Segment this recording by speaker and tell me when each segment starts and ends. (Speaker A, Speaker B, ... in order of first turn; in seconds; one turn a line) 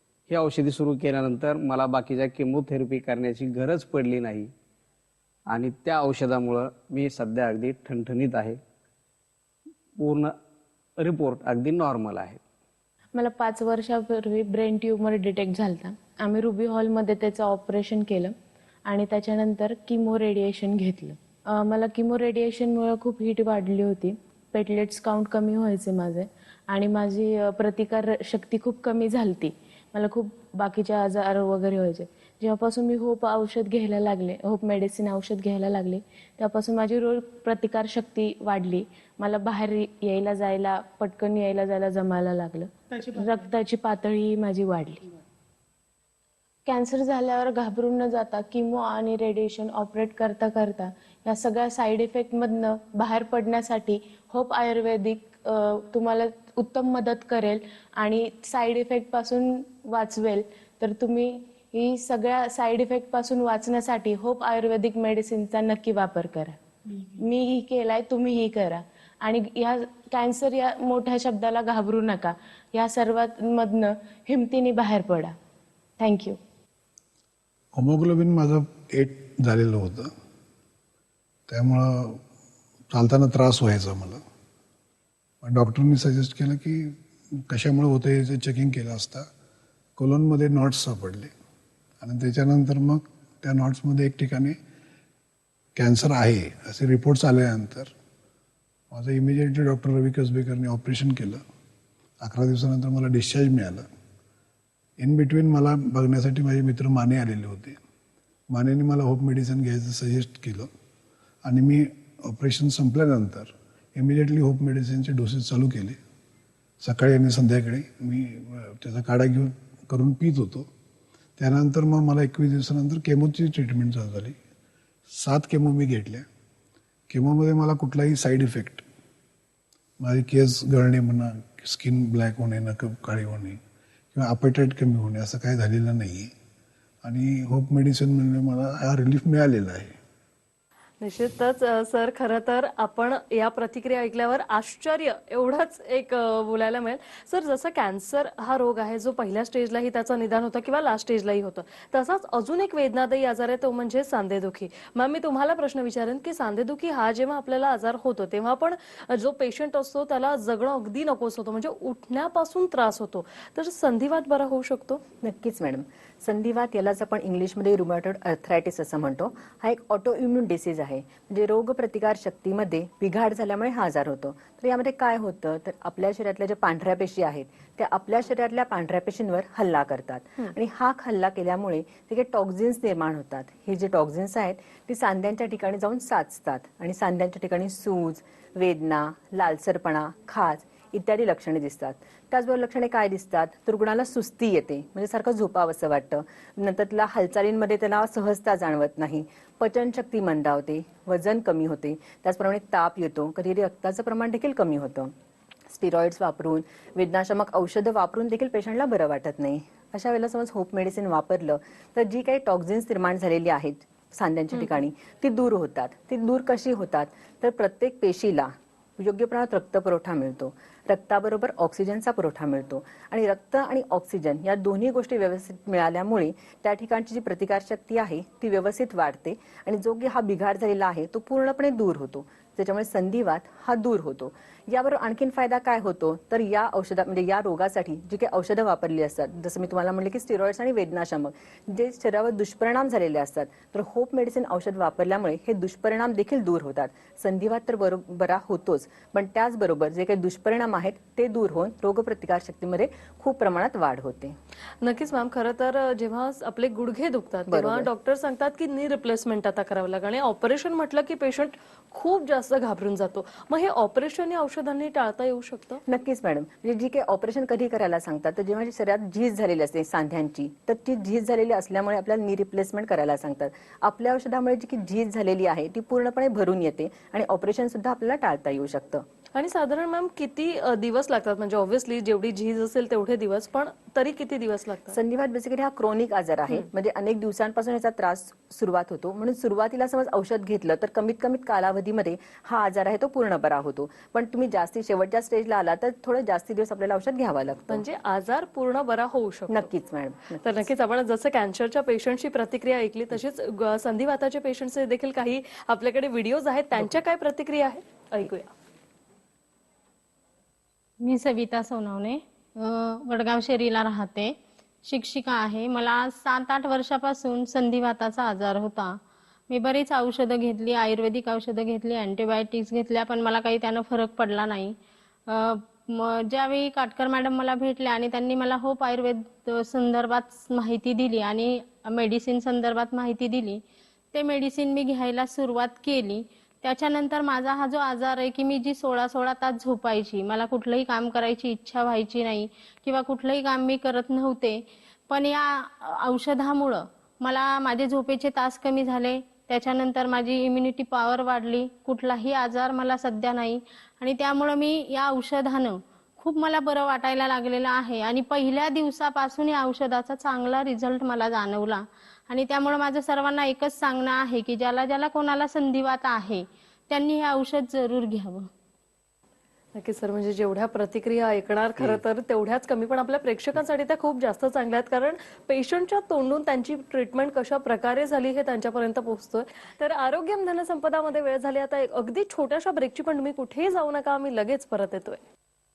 Speaker A: 0.3-4.5
Speaker A: 5.5-8.6
Speaker A: 10.0-10.4
Speaker A: 11.0-12.4
Speaker B: 13.1-45.0
Speaker B: 46.6-66.6
Speaker B: 67.2-75.3
Speaker B: 76.0-76.4
Speaker C: 77.7-80.1
Speaker C: 81.5-82.2
Speaker C: 82.9-84.2
Speaker C: 85.4-86.9
Speaker C: 87.5-89.2
Speaker C: 90.0-91.3
Speaker C: 92.0-94.5
Speaker C: 95.8-97.9
Speaker C: 98.9-101.4
Speaker C: 102.2-103.8
Speaker C: 105.0-107.8
Speaker C: 108.5-110.7
Speaker C: 111.4-116.0
Speaker C: 116.8-120.7
Speaker C: 121.4-124.3
Speaker C: 125.2-126.2
Speaker C: 127.1-128.8
Speaker C: 130.0-133.6
Speaker C: 134.1-136.3
Speaker C: 137.0-139.9
Speaker D: 141.0-165.0
Speaker E: 165.2-205.1
Speaker E: 205.7-254.4
Speaker D: 254.8-265.8
Speaker E: 257.5-257.9
Speaker E: 265.9-279.0
Speaker D: 279.3-285.0
Speaker E: 284.9-297.8
Speaker D: 297.7-299.7
Speaker E: 299.5-300.7
Speaker D: 300.4-308.5
Speaker F: 311.1-314.3
Speaker F: 314.9-319.0
Speaker F: 319.5-324.7
Speaker F: 325.3-333.6
Speaker F: 334.1-368.4
Speaker D: 369.7-385.2